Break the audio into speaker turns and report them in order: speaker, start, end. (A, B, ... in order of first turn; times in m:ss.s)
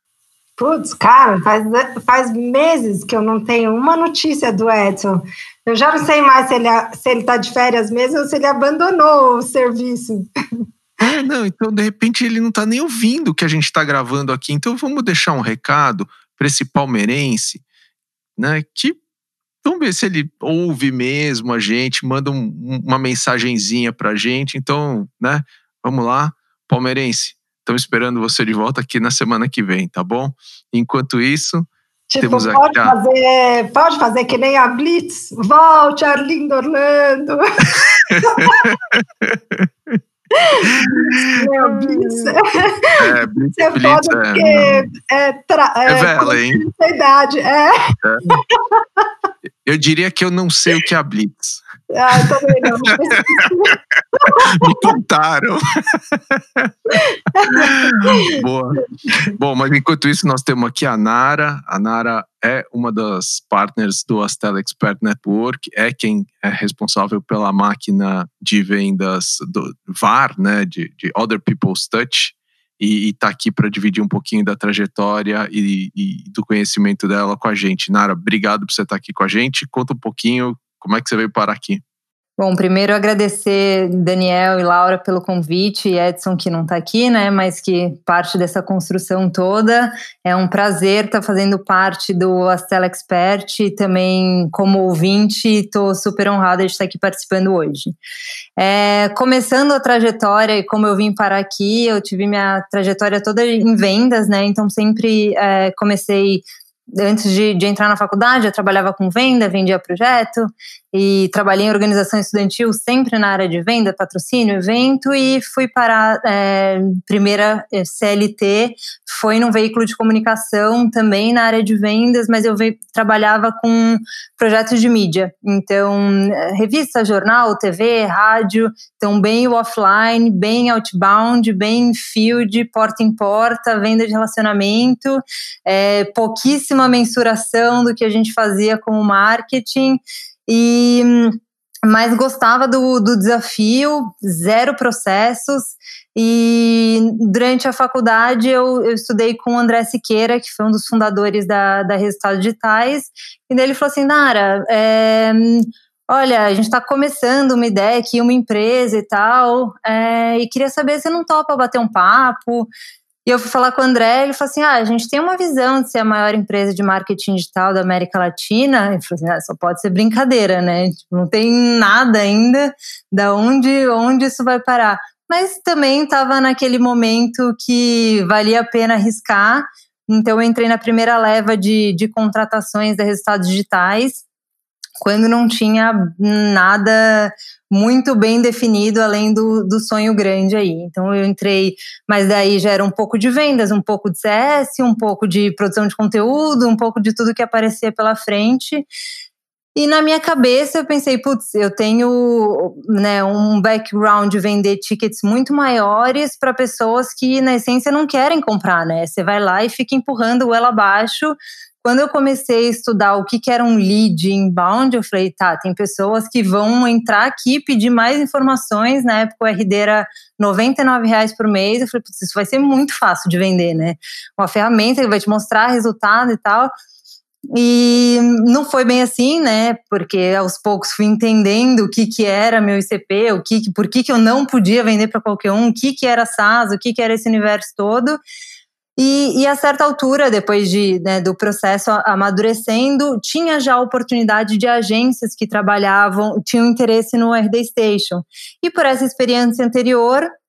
0:00.6-0:10.3 A
0:11.0-0:17.6 B
0:18.4-0:19.0 B
0:19.6-0:31.7 B
0:32.1-0:38.6 A
0:32.2-0:33.0 B
0:38.1-0:40.0 B
0:40.4-0:49.0 A
0:40.8-0:41.4 B
0:43.0-0:44.9 B
0:45.9-0:46.6 B
0:48.0-0:48.4 B
0:49.6-0:51.6 B
0:51.9-0:54.9 A
0:54.4-0:56.7 B
0:57.3-0:58.4 A
0:57.5-1:21.8 B
1:22.4-1:38.0 C
1:38.6-1:46.4 C
1:47.0-2:42.7 C
2:43.3-3:04.2 C
3:05.0-3:18.9 C
3:19.8-3:46.7 C
3:47.5-3:58.2 C
3:59.0-4:10.3 C